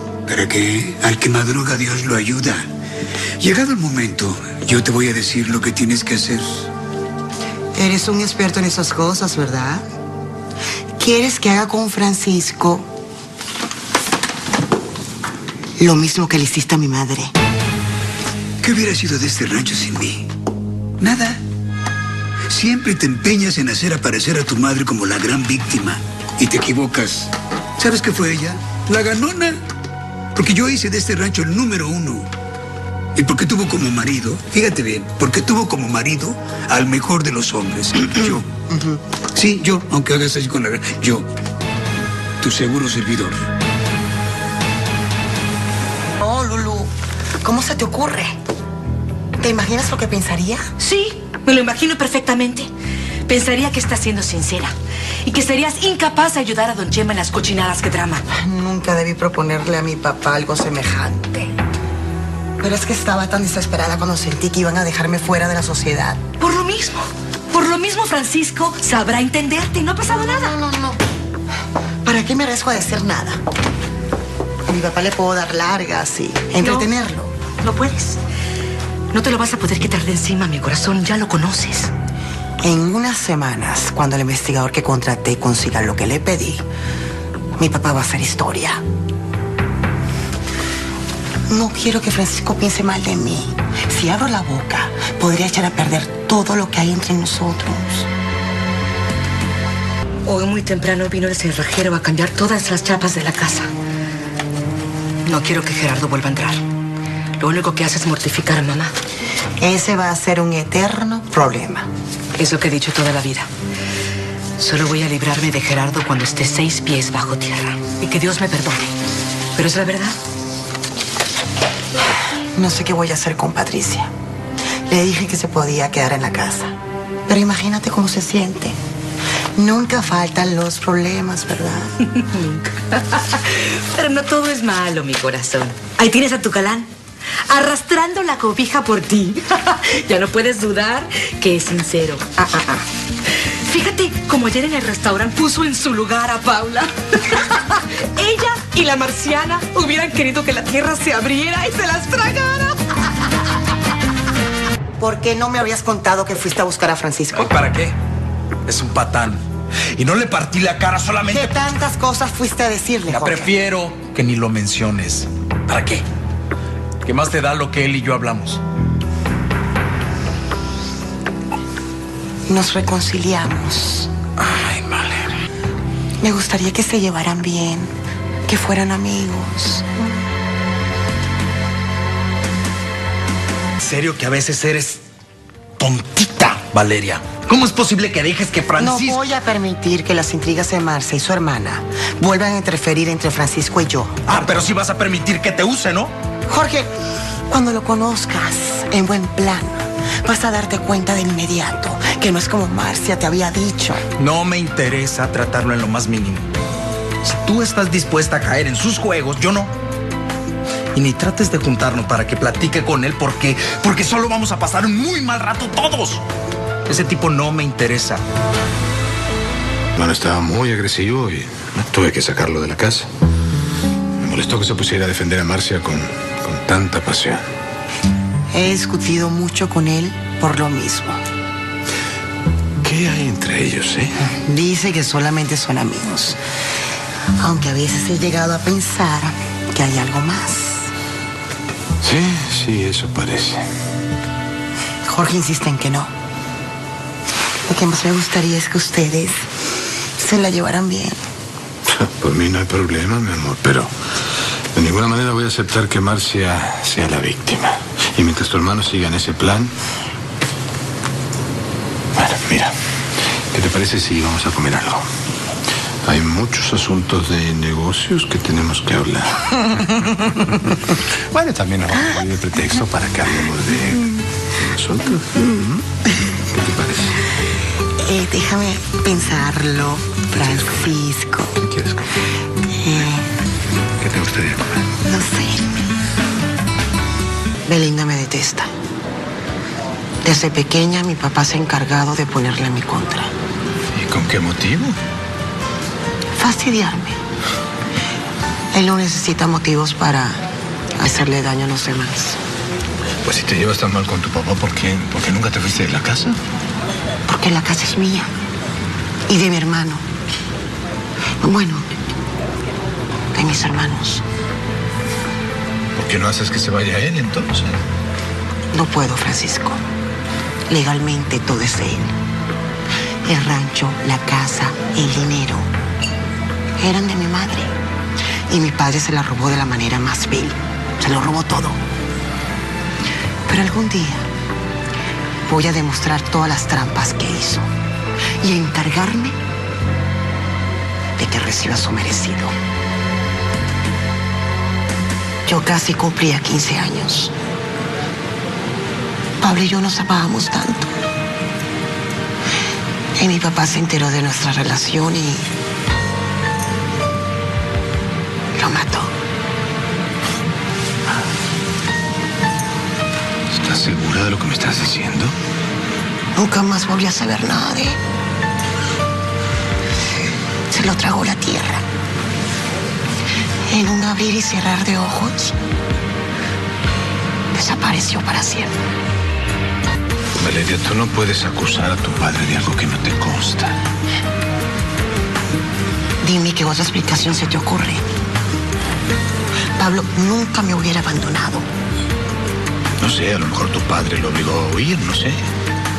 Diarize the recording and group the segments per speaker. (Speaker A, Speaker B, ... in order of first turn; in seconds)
Speaker A: 0.3-2.7, 3.4-6.7, 18.6-20.3, 21.0-21.4, 22.5-29.6, 30.3-32.3, 33.1-38.5, 39.3-41.3, 42.4-43.4
Speaker B: 7.7-9.8, 11.0-12.9, 15.8-17.3, 38.7-39.0, 46.2-46.9, 47.4-48.4, 49.4-50.6, 58.3-61.5, 62.6-66.2, 70.1-71.0, 72.0-73.4, 74.7-77.3, 82.6-86.6, 87.5-88.8, 91.5-98.1, 109.6-111.9, 122.5-124.1, 124.9-126.7, 127.3-128.8, 129.6-131.9, 155.0-157.6, 161.2-163.6, 172.5-174.1, 176.2-177.9, 178.4-180.0, 188.8-194.3, 196.5-196.9, 197.5-204.0, 228.5-231.2, 234.2-236.4, 237.4-240.9, 245.1-246.1, 247.7-249.4, 250.2-251.2, 278.0-281.6, 282.7-283.3, 285.1-285.7, 287.6-288.7, 290.2-293.3, 296.4-297.2, 298.7-300.4, 301.0-302.4, 307.3-308.3, 309.3-310.0, 311.4-311.9, 313.3-314.2, 318.7-319.8, 320.7-322.1, 323.2-325.7, 326.8-327.7, 328.5-331.8, 333.4-334.3, 335.4-337.7, 338.4-339.4, 341.2-342.5, 345.4-347.3, 349.4-350.9, 353.2-355.5, 358.5-359.1, 366.3-368.0, 370.7-371.8, 373.7-375.5, 377.5-378.7, 386.2-388.0, 389.8-391.7
Speaker C: 50.8-52.7, 53.3-54.7, 55.2-58.2, 66.4-70.5, 76.6-76.9, 77.6-78.2, 79.1-81.9, 100.2-103.7, 105.2-106.6, 107.4-108.9, 112.3-113.5, 114.6-118.8, 119.5-120.2, 132.2-136.9, 137.5-142.8, 143.4-152.8
Speaker D: 157.3-157.9, 158.7-159.4, 160.0-161.6, 163.1-166.0, 167.0-168.6, 174.4-175.3, 183.8-185.0, 185.8-189.2, 194.3-196.1, 204.2-206.5, 207.2-209.7, 210.9-216.2, 216.9-218.2
Speaker E: 219.9-223.1, 224.2-227.4, 232.8-234.1, 242.0-243.6, 251.9-253.9, 254.7-259.7, 262.1-262.7, 263.5-265.1, 266.0-277.2, 280.3-280.9, 281.6-282.1, 284.0-284.8, 293.9-295.0, 303.2-306.4, 315.9-317.8, 363.5-365.4, 380.4-383.8, 393.0-395.4